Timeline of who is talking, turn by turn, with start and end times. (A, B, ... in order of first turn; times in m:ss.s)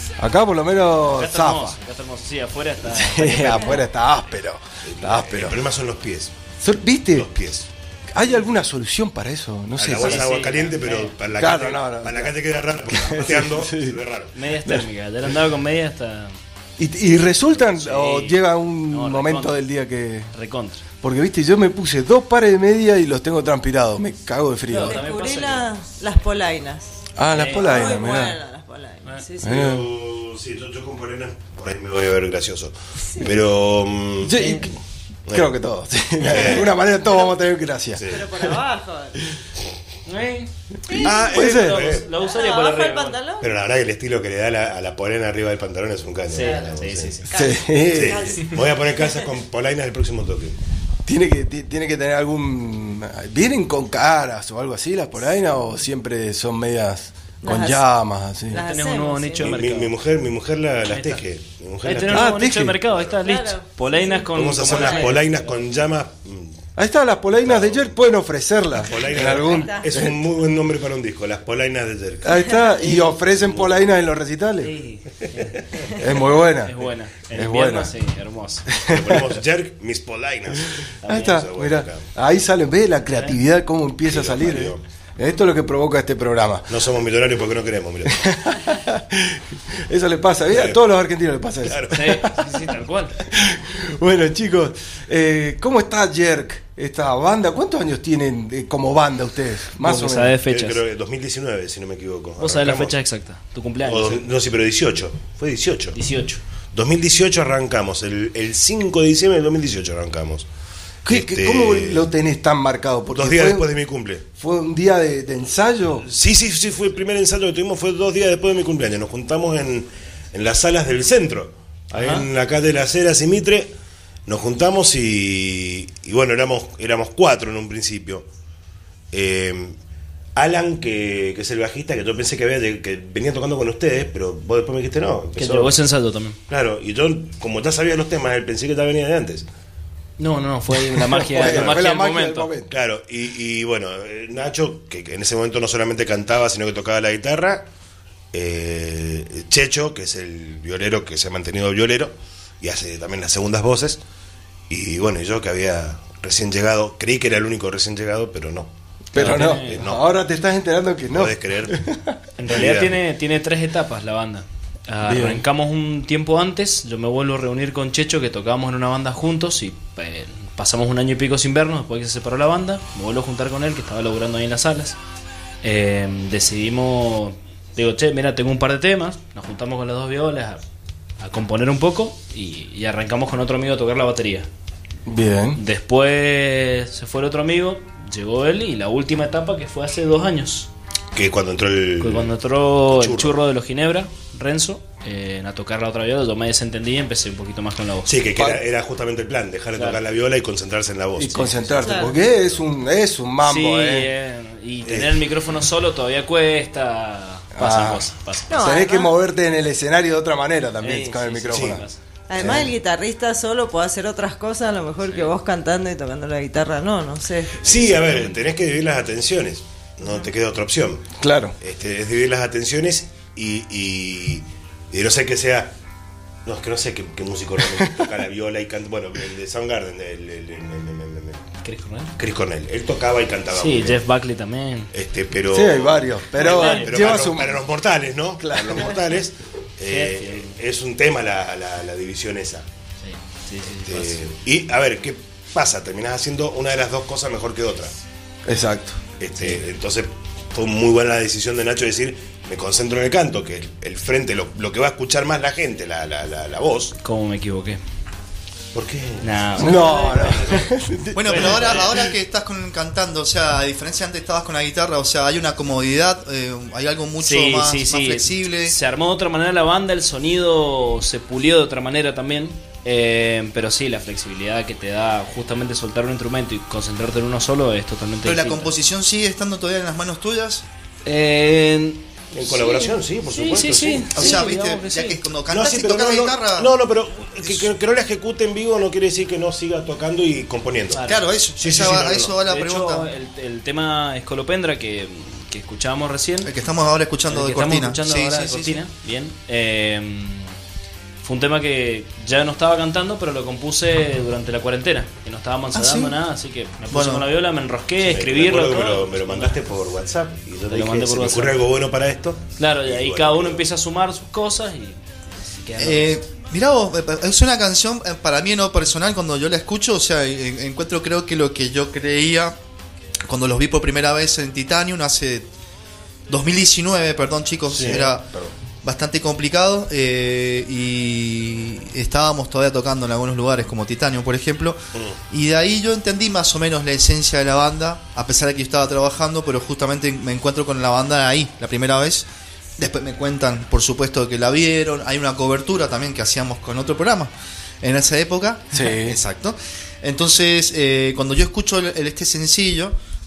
0:00.2-0:01.8 A
0:01.1-0:03.8 B
0:02.8-0:05.6 A
0:04.8-0:06.4 C
0:06.6-0:07.3 A
0:07.1-0:07.7 C
0:08.1-0:10.2 A
0:09.8-0:14.3 C
0:10.0-0:11.1 B
0:11.4-0:12.3 A
0:12.9-0:14.0 A
0:14.3-0:16.4 B
0:16.8-0:20.3 A
0:17.5-0:19.5 B
0:20.3-0:20.8 B
0:21.0-0:25.0 A
0:24.7-0:25.7 B
0:24.7-0:29.6 D
0:27.2-0:28.4 A
0:27.3-0:28.0 B
0:29.4-0:29.9 A
0:29.4-0:34.4 C
0:34.2-0:34.8 A
0:35.3-0:38.6 A
0:36.2-0:36.7 C
0:37.9-0:38.2 C
0:38.1-0:39.2 D
0:40.0-0:43.2 B
0:40.9-0:41.3 D
0:41.0-0:41.9 A
0:41.0-0:42.1 C
0:42.1-0:43.5 D
0:43.4-0:47.2 C
0:46.3-0:47.3 B
0:46.4-0:46.6 D
0:47.3-0:48.4 A
0:47.3-0:49.3 D
0:47.8-0:50.6 C
0:51.0-0:58.6 A
0:57.4-0:57.8 D
0:58.5-0:59.6 D
0:58.5-0:59.9 B
0:59.4-1:02.3 C
1:00.9-1:01.2 B
1:01.8-1:05.6 B
1:02.1-1:02.8 A
1:03.1-1:05.2 D
1:04.3-1:06.6 C
1:06.8-1:10.2 A
1:07.4-1:07.9 C
1:08.8-1:13.9 C
1:09.4-1:09.8 D
1:12.2-1:14.7 A
1:14.6-1:18.7 B
1:15.2-1:15.6 C
1:16.0-1:17.9 A
1:18.7-1:19.2 A
1:18.8-1:22.1 C
1:21.0-1:21.4 B
1:21.0-1:26.8 A
1:23.1-1:23.4 B
1:24.0-1:24.8 C
1:26.7-1:28.4 C
1:28.0-1:32.4 A
1:30.5-1:30.8 C
1:31.6-1:32.2 C
1:31.9-1:33.2 B
1:33.2-1:40.4 A
1:39.8-1:40.8 B
1:40.4-1:42.9 C
1:42.4-1:44.2 B
1:43.8-1:46.0 C
1:45.9-1:46.4 B
1:46.7-1:50.5 C
1:51.0-1:53.7 A
1:51.1-1:52.1 C
1:53.1-1:54.2 C
1:54.3-1:56.0 A
1:56.0-2:03.7 C
2:01.9-2:02.3 B
2:04.2-2:08.3 C
2:09.1-2:09.8 C
2:10.3-2:15.7 C
2:15.4-2:16.4 B
2:16.5-2:19.5 C
2:20.2-2:22.5 B
2:21.1-2:22.7 A
2:21.4-2:21.8 C
2:22.7-2:27.7 C
2:28.3-2:34.0 C
2:34.7-2:40.1 C
2:39.1-2:42.2 A
2:39.1-2:39.8 B
2:41.1-2:41.8 C
2:42.4-2:55.0 B
2:42.5-2:43.0 C
2:45.0-2:45.4 A
2:55.6-3:00.6 B
3:01.2-3:04.5 B
3:05.0-3:05.6 A
3:05.6-3:10.7 B
3:11.1-3:13.4 C
3:12.0-3:18.2 B
3:18.0-3:21.5 C
3:18.4-3:18.6 A
3:19.7-3:20.0 B
3:21.2-3:24.1 A
3:21.3-3:21.6 B
3:21.8-3:22.2 D
3:23.4-3:28.6 B
3:24.8-3:25.2 C
3:27.5-3:31.8 A
3:28.5-3:29.1 D
3:30.8-3:32.0 B
3:31.5-3:31.8 C
3:32.3-3:37.6 D
3:32.3-3:32.7 A
3:37.6-3:38.4 B
3:37.6-3:45.7 C
3:41.2-3:41.6 A
3:46.4-3:51.4 C
3:47.6-3:48.1 A
3:51.6-3:52.1 B
3:52.2-3:54.0 C
3:53.5-3:54.9 B
3:54.9-4:02.6 C
3:55.5-3:57.6 A
3:56.4-3:57.2 B
3:58.4-3:58.9 A
3:59.8-4:00.5 B
4:03.0-4:04.2 B
4:03.8-4:07.9 C
4:08.4-4:09.0 A
4:09.2-4:17.0 C
4:17.0-4:17.8 B
4:18.7-4:20.6 C
4:19.2-4:20.7 B
4:19.6-4:22.1 A
4:21.1-4:28.8 E
4:21.2-4:21.9 B
4:27.2-4:38.7 B
4:38.2-4:40.6 E
4:41.0-4:45.2 B
4:42.3-4:44.4 C
4:44.1-4:46.7 E
4:45.5-4:51.0 C
4:50.9-4:51.2 B
4:51.0-4:53.1 E
4:51.6-4:52.4 C
4:52.4-4:56.5 B
4:56.4-4:58.8 E
4:57.3-5:00.5 B
5:01.2-5:09.6 B
5:05.7-5:06.2 E
5:06.9-5:07.2 E
5:08.0-5:13.6 C
5:10.7-5:11.6 B
5:12.6-5:16.2 B
5:15.8-5:22.6 E
5:23.2-5:25.5 E
5:26.3-5:28.3 E
5:27.7-5:28.5 C
5:28.8-5:34.8 E
5:34.9-5:35.2 C
5:35.3-5:52.9 E
5:48.7-5:49.2 A